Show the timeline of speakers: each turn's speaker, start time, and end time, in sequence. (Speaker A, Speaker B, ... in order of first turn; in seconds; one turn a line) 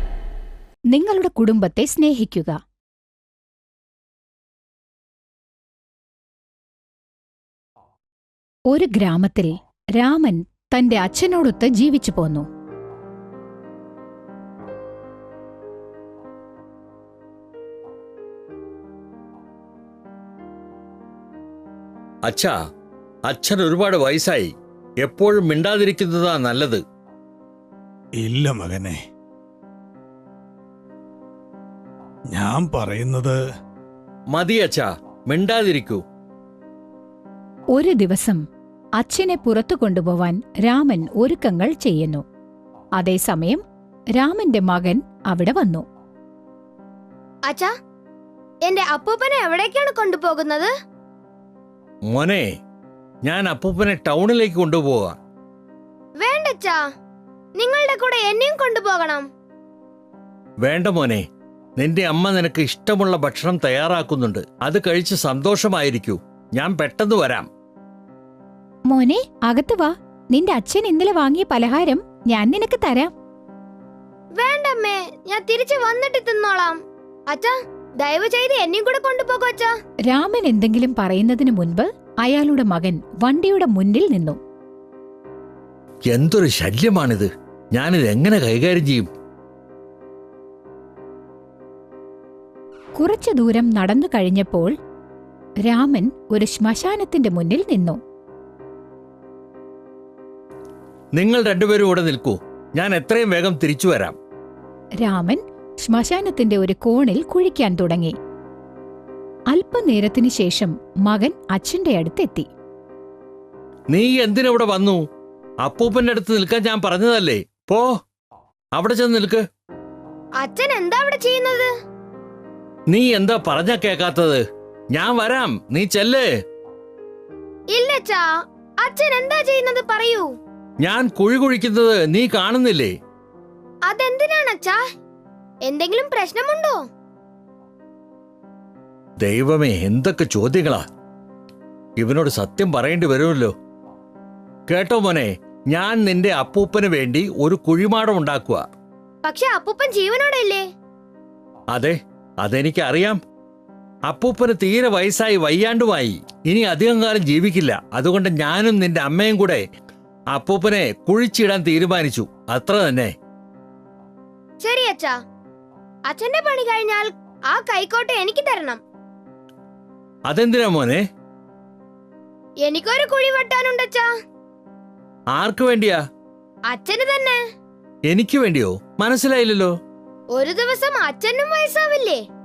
Speaker A: 0.9-2.6
Speaker A: 8.7-12.5
Speaker B: 22.2-22.5
Speaker B: 23.3-24.5
Speaker B: 25.0-26.8
Speaker C: 28.2-29.0
Speaker C: 32.3-33.4
Speaker B: 34.3-36.0
Speaker A: 37.7-38.4
Speaker A: 39.0-42.2
Speaker A: 43.0-43.6
Speaker A: 44.2-45.8
Speaker D: 48.6-50.7
Speaker B: 52.1-52.5
Speaker B: 53.2-55.1
Speaker D: 56.2-56.8
Speaker D: 57.6-59.2
Speaker B: 60.6-61.2
Speaker B: 61.8-67.5
Speaker A: 68.9-73.1
Speaker D: 74.4-79.7
Speaker A: 80.1-84.4
Speaker B: 86.1-89.1
Speaker A: 93.0-94.7
Speaker A: 95.7-98.0
Speaker B: 101.2-104.2
Speaker A: 105.0-108.1
Speaker A: 109.5-112.5
Speaker B: 113.9-115.0
Speaker B: 115.6-117.9
Speaker B: 118.8-119.4
Speaker D: 120.4-121.7
Speaker B: 122.9-124.4
Speaker B: 124.9-126.3
Speaker D: 127.7-128.2
Speaker D: 128.8-130.3
Speaker B: 130.8-132.9
Speaker D: 133.9-134.8
Speaker D: 135.6-136.8
Speaker B: 139.2-140.8
Speaker B: 142.0-143.5
Speaker B: 144.7-148.6
Speaker D: 149.2-150.6
Speaker B: 151.7-153.2
Speaker B: 154.1-159.6
Speaker B: 160.3-163.1
Speaker D: 164.6-165.1
Speaker D: 166.1-168.8
Speaker B: 170.3-171.0
Speaker D: 172.6-174.1
Speaker B: 175.3-176.0
Speaker D: 176.7-177.4
Speaker B: 178.1-179.7
Speaker D: 180.3-182.2